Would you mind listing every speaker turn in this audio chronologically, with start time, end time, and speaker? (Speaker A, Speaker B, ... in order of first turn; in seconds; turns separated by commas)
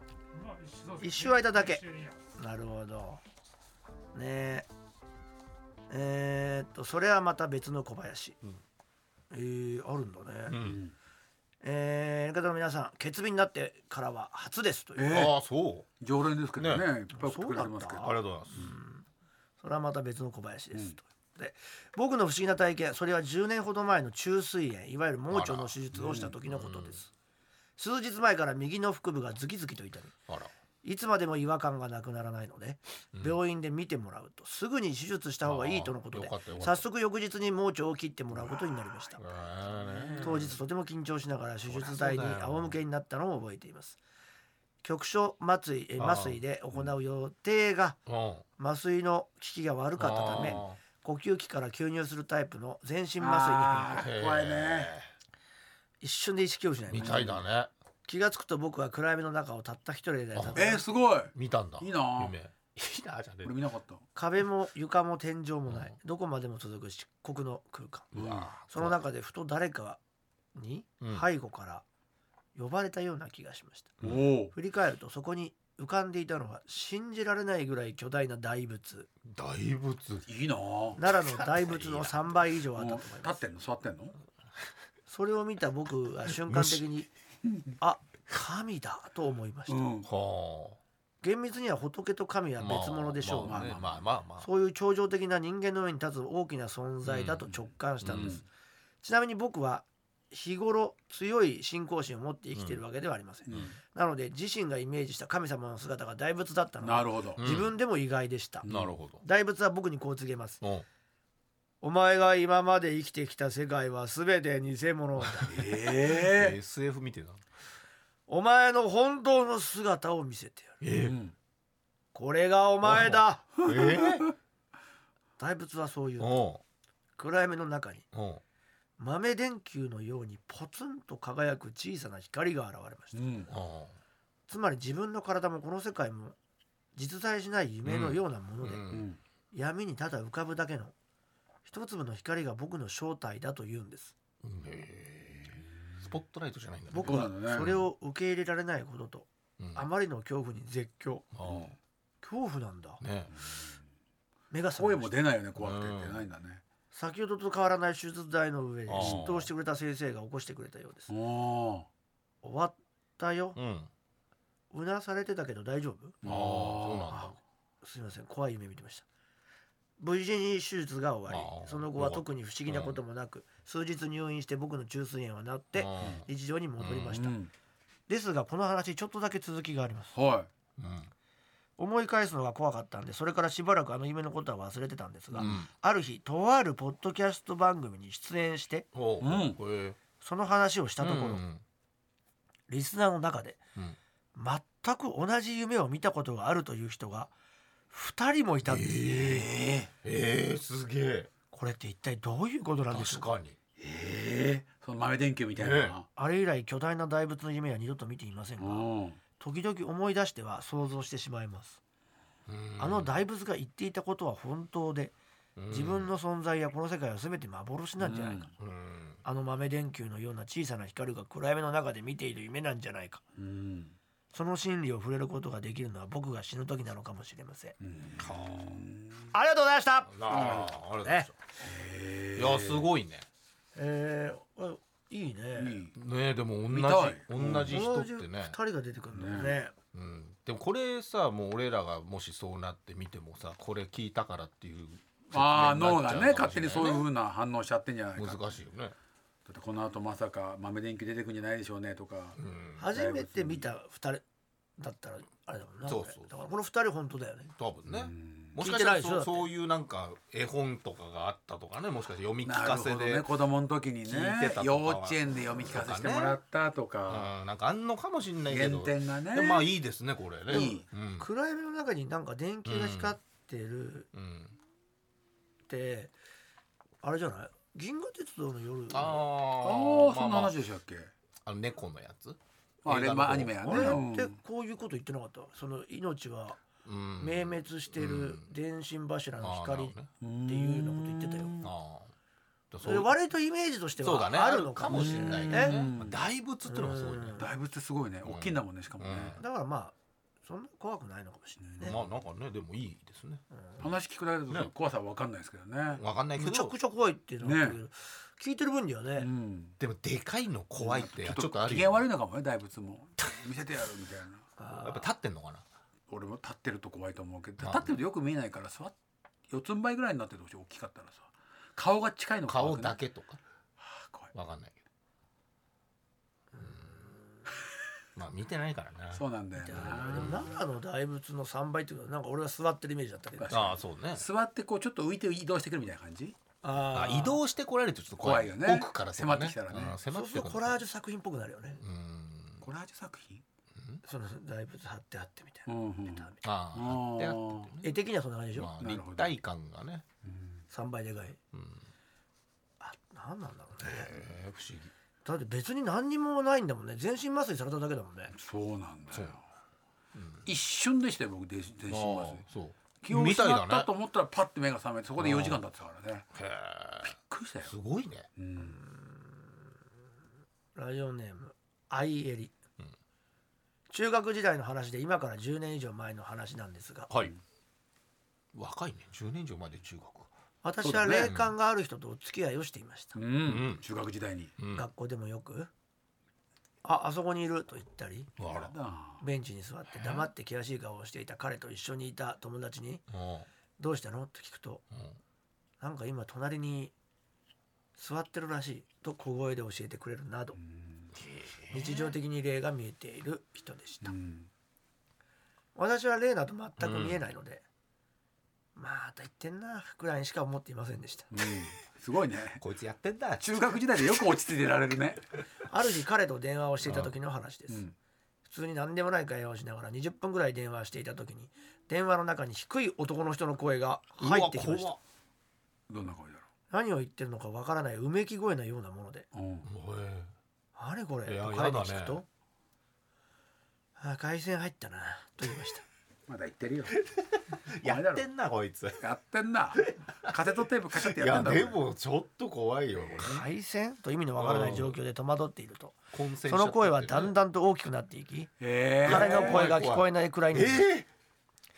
Speaker A: 0.7-1.5, Speaker B: 1.0-3.2, Speaker B: 4.1-4.7, Speaker B: 5.9-8.4, Speaker B: 9.3-10.6, Speaker C: 10.5-10.8, Speaker A: 10.6-10.9, Speaker B: 11.6-15.2, Speaker A: 14.9-15.4, Speaker C: 15.1-15.9, Speaker A: 16.0-18.1, Speaker C: 16.6-16.9, Speaker B: 17.1-19.0, Speaker C: 18.0-18.7, Speaker B: 19.6-27.1, Speaker C: 25.3-25.8, Speaker A: 25.9-26.3, Speaker C: 26.4-27.0, Speaker B: 27.8-30.1, Speaker B: 30.8-39.2, Speaker C: 35.4-36.8, Speaker C: 39.2-40.6, Speaker B: 40.2-44.0, Speaker C: 41.6-42.7, Speaker B: 44.8-48.0, Speaker C: 46.0-46.4, Speaker C: 48.1-48.4, Speaker B: 48.6-54.0, Speaker C: 50.0-50.8, Speaker A: 53.2-54.9, Speaker C: 53.9-55.1, Speaker B: 56.0-57.2, Speaker C: 56.9-57.7, Speaker A: 56.9-57.4, Speaker B: 58.0-60.8, Speaker C: 60.3-60.6, Speaker A: 60.5-62.4, Speaker C: 61.3-63.5, Speaker A: 63.4-64.0, Speaker B: 64.1-68.1, Speaker C: 65.7-66.0, Speaker C: 68.1-69.0, Speaker A: 68.1-68.5, Speaker B: 68.7-70.0, Speaker B: 70.5-71.8, Speaker B: 72.5-74.0, Speaker A: 74.0-74.5, Speaker B: 74.5-79.1, Speaker C: 79.2-80.3, Speaker A: 80.3-81.0, Speaker B: 81.0-83.4, Speaker C: 81.1-82.2, Speaker A: 82.7-84.2, Speaker B: 85.1-87.1, Speaker C: 86.5-86.8, Speaker B: 87.8-89.8, Speaker A: 89.7-90.1, Speaker C: 90.0-90.8, Speaker B: 91.2-93.7, Speaker C: 92.6-94.5, Speaker A: 93.4-94.0, Speaker B: 94.4-98.4, Speaker C: 97.0-97.5, Speaker C: 98.0-98.4, Speaker A: 98.1-98.4, Speaker B: 99.0-108.7, Speaker C: 102.5-102.8, Speaker A: 103.5-103.7, Speaker A: 106.8-107.4, Speaker C: 107.4-107.7, Speaker A: 108.6-109.0, Speaker C: 108.7-109.2, Speaker B: 109.2-110.6, Speaker C: 110.6-110.8, Speaker B: 111.8-115.6, Speaker C: 115.4-117.4, Speaker A: 115.5-116.6, Speaker B: 118.3-120.8, Speaker C: 120.8-121.2, Speaker A: 120.9-121.3, Speaker B: 122.1-123.5, Speaker C: 122.8-124.3, Speaker A: 123.6-124.3, Speaker B: 125.4-126.3, Speaker C: 126.2-126.6, Speaker B: 127.2-128.1, Speaker C: 128.1-128.4, Speaker B: 129.0-133.5, Speaker A: 133.1-133.5, Speaker C: 133.5-133.9, Speaker B: 134.5-136.3, Speaker B: 136.9-138.8, Speaker C: 137.8-139.1, Speaker A: 138.9-139.2, Speaker B: 139.5-140.9, Speaker B: 141.6-144.1, Speaker C: 144.4-147.8, Speaker B: 146.9-151.3, Speaker A: 147.0-147.7, Speaker C: 149.6-149.8, Speaker C: 151.3-151.7, Speaker A: 151.5-151.7, Speaker B: 152.2-153.0, Speaker C: 153.0-153.4, Speaker B: 154.5-155.1, Speaker A: 154.8-156.6, Speaker C: 155.6-156.2, Speaker B: 156.9-161.1, Speaker C: 158.9-159.5, Speaker A: 159.0-159.3, Speaker A: 161.1-161.9, Speaker B: 162.4-163.6, Speaker C: 163.6-163.9, Speaker B: 164.7-166.2, Speaker A: 166.2-167.2, Speaker C: 166.2-167.3, Speaker B: 167.1-169.1, Speaker B: 170.0-177.4, Speaker C: 171.3-173.0, Speaker C: 175.7-176.3, Speaker C: 176.8-177.2, Speaker A: 177.1-177.5, Speaker B: 178.1-180.1, Speaker A: 180.1-180.5, Speaker C: 180.8-181.1, Speaker B: 181.8-188.9, Speaker C: 185.3-185.7, Speaker C: 188.9-190.0, Speaker A: 189.2-189.6, Speaker B: 190.2-191.4, Speaker C: 191.0-191.6, Speaker B: 192.7-193.6, Speaker B: 194.3-197.3, Speaker B: 197.9-199.1, Speaker C: 198.7-199.5, Speaker A: 199.1-199.9, Speaker C: 200.0-201.3, Speaker B: 201.5-203.3, Speaker C: 202.9-203.6, Speaker A: 203.8-206.1, Speaker C: 205.6-206.0, Speaker B: 206.2-211.8, Speaker A: 208.6-209.2, Speaker C: 212.5-213.2, Speaker B: 212.8-215.1, Speaker C: 215.6-216.1, Speaker B: 215.7-218.5, Speaker A: 218.0-218.5, Speaker C: 218.6-219.2, Speaker B: 219.2-223.2, Speaker A: 223.4-223.9, Speaker B: 224.3-227.8, Speaker A: 227.8-229.3, Speaker C: 228.2-228.8, Speaker B: 229.3-230.3, Speaker C: 230.1-231.3, Speaker A: 230.3-230.7, Speaker B: 231.0-231.3, Speaker A: 231.6-232.9, Speaker C: 232.3-233.2, Speaker B: 233.7-235.8, Speaker A: 235.6-235.9, Speaker C: 235.9-238.6, Speaker A: 236.7-237.8, Speaker B: 237.7-239.7, Speaker A: 239.1-239.6, Speaker C: 239.9-247.1, Speaker A: 245.3-248.5, Speaker C: 248.2-248.9, Speaker A: 249.4-252.4, Speaker C: 252.4-252.8, Speaker B: 252.8-254.2, Speaker A: 252.9-253.7, Speaker B: 254.8-257.5, Speaker C: 255.8-256.3, Speaker C: 257.6-263.3, Speaker A: 257.9-258.5, Speaker B: 258.6-259.5, Speaker A: 262.4-267.3, Speaker C: 264.1-266.4, Speaker C: 267.1-271.3, Speaker A: 268.5-269.7, Speaker A: 270.5-270.8, Speaker B: 270.5-274.1, Speaker C: 272.6-273.1, Speaker C: 274.1-274.6, Speaker B: 275.7-276.1, Speaker B: 277.0-279.2, Speaker C: 278.9-280.5, Speaker A: 279.6-281.1, Speaker C: 281.4-284.0, Speaker A: 282.8-284.4, Speaker B: 283.6-286.6, Speaker C: 286.8-288.5, Speaker B: 287.2-291.6, Speaker C: 289.4-290.1, Speaker A: 290.2-291.7, Speaker C: 291.6-292.1, Speaker C: 292.7-293.1, Speaker B: 292.8-295.8, Speaker C: 294.0-297.4, Speaker A: 294.9-296.2, Speaker B: 296.7-297.4, Speaker A: 297.4-299.4, Speaker C: 298.2-299.4, Speaker B: 299.4-301.9, Speaker A: 301.6-302.0, Speaker C: 301.8-303.9, Speaker A: 303.8-306.0, Speaker C: 306.0-306.7, Speaker B: 306.4-309.3, Speaker A: 307.4-307.8, Speaker A: 309.2-309.8, Speaker C: 309.8-312.1, Speaker A: 310.8-314.5, Speaker B: 314.6-315.0, Speaker C: 314.7-315.6, Speaker A: 316.1-318.9, Speaker C: 317.6-317.9, Speaker A: 319.5-323.0, Speaker C: 322.5-323.4, Speaker A: 323.8-324.3, Speaker C: 324.3-324.7, Speaker B: 326.6-326.8, Speaker C: 328.1-329.2, Speaker A: 329.1-330.6, Speaker B: 329.6-333.6, Speaker C: 329.7-330.5, Speaker A: 333.4-336.4, Speaker C: 333.5-334.2, Speaker B: 336.6-337.4, Speaker C: 336.9-340.8, Speaker A: 338.2-340.0, Speaker B: 340.1-341.8, Speaker C: 341.8-342.6, Speaker A: 342.6-343.4, Speaker B: 344.0-346.3, Speaker A: 345.7-347.7, Speaker C: 346.4-347.8, Speaker B: 347.8-348.7, Speaker C: 348.5-350.0, Speaker A: 348.8-349.3, Speaker A: 350.2-350.6, Speaker B: 350.7-351.4, Speaker C: 351.5-351.8, Speaker B: 352.8-354.1, Speaker C: 353.8-354.9, Speaker B: 355.2-358.3, Speaker A: 358.3-359.4, Speaker C: 360.1-360.4, Speaker A: 360.4-362.4, Speaker C: 361.9-363.9, Speaker A: 363.0-366.3, Speaker C: 365.2-365.6, Speaker C: 366.3-367.1, Speaker A: 367.0-367.7, Speaker C: 367.6-368.3, Speaker A: 368.4-368.8, Speaker B: 368.6-369.6, Speaker B: 370.7-372.5, Speaker B: 373.9-377.1, Speaker C: 378.5-380.3, Speaker B: 380.6-383.1, Speaker A: 380.8-381.3, Speaker C: 381.2-381.5, Speaker A: 383.1-384.5, Speaker C: 383.4-383.8, Speaker C: 384.6-384.8, Speaker B: 384.7-385.7, Speaker B: 386.8-388.3, Speaker C: 388.4-388.7, Speaker A: 388.5-389.2, Speaker B: 389.2-393.0, Speaker C: 393.1-393.5, Speaker B: 393.8-394.8, Speaker B: 395.8-396.9, Speaker B: 397.9-400.6, Speaker A: 400.6-401.1, Speaker C: 401.2-401.8, Speaker B: 401.7-404.1, Speaker A: 404.0-404.5, Speaker B: 405.7-407.6, Speaker C: 406.8-407.2, Speaker B: 408.8-411.5, Speaker A: 411.3-412.6, Speaker C: 412.6-413.6, Speaker A: 413.4-415.2, Speaker B: 415.7-417.8, Speaker C: 416.8-417.1, Speaker A: 417.7-417.9, Speaker B: 418.4-424.9, Speaker C: 424.2-425.0, Speaker A: 425.9-426.4, Speaker B: 426.7-429.3, Speaker A: 429.3-429.7, Speaker C: 429.6-430.3, Speaker B: 430.8-432.2, Speaker C: 431.2-432.2, Speaker B: 434.0-435.8, Speaker A: 436.3-437.1, Speaker C: 437.1-439.0, Speaker A: 437.8-438.3, Speaker A: 439.0-441.8, Speaker C: 439.9-440.3, Speaker C: 441.0-443.4, Speaker B: 443.2-448.5, Speaker C: 444.4-445.0, Speaker C: 446.1-447.3, Speaker A: 448.6-449.7, Speaker B: 449.0-450.8, Speaker C: 449.0-451.1